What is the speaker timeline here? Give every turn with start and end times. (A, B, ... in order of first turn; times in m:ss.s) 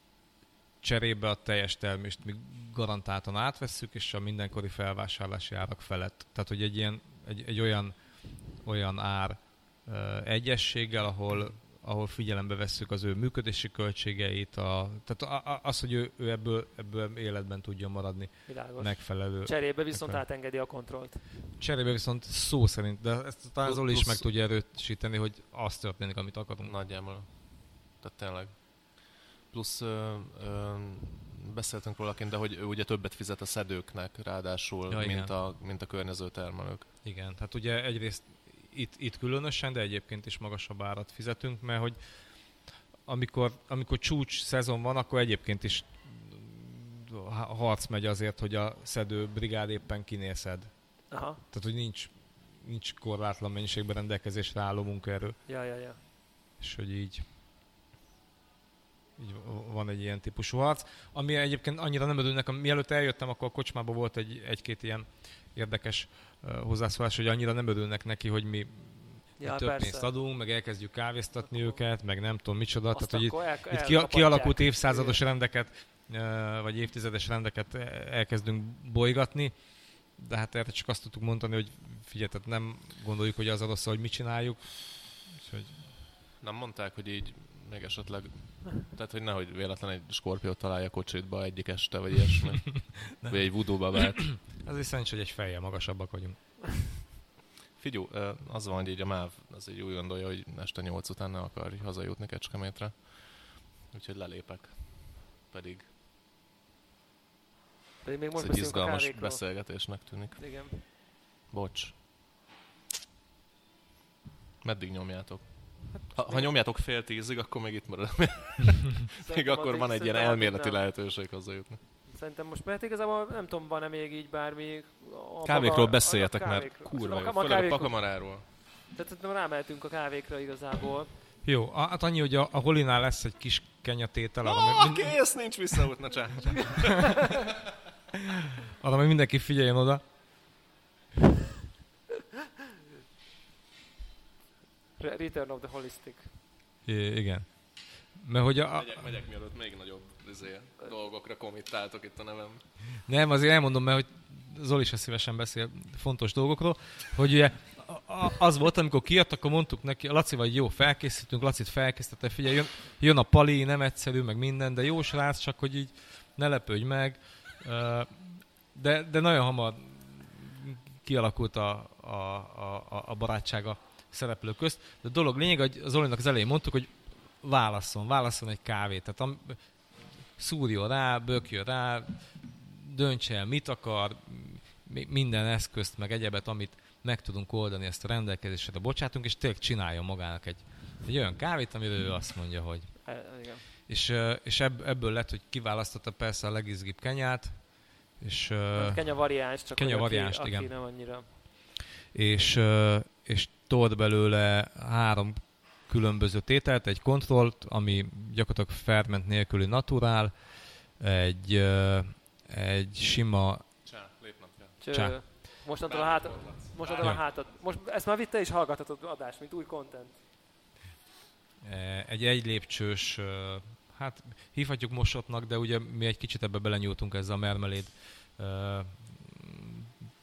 0:00.8-0:20.2 A
0:18.5-0:21.3 B
0:21.6-0:26.8 A
0:23.6-0:24.3 C
0:26.6-0:36.9 C
0:34.9-0:35.3 A
0:37.0-0:50.7 A
0:51.1-0:51.4 B
0:51.5-0:55.4 A
0:55.4-0:56.0 B
0:56.6-0:57.3 A
0:59.2-1:25.8 A
1:09.4-1:10.1 B
1:11.5-1:11.8 B
1:12.9-1:15.2 B
1:26.4-1:34.4 C
1:33.1-1:36.9 A
1:37.8-1:45.9 C
1:48.0-1:50.8 B
1:48.4-1:52.1 C
1:54.6-2:01.8 C
1:56.0-1:56.5 B
1:59.2-2:00.8 B
2:02.1-2:11.1 B
2:05.4-2:08.4 C
2:11.4-2:15.2 A
2:14.4-2:17.4 C
2:17.0-2:17.3 A
2:18.6-2:20.0 A
2:25.0-2:26.3 B
2:26.8-2:29.2 A
2:28.7-2:32.7 C
2:33.0-3:21.4 A
3:13.0-3:13.6 B
3:18.7-3:21.3 B
3:22.1-3:33.6 A
3:33.8-3:34.8 C
3:34.8-3:40.2 B
3:34.9-3:35.4 A
3:35.8-3:37.4 C
3:41.6-3:49.9 A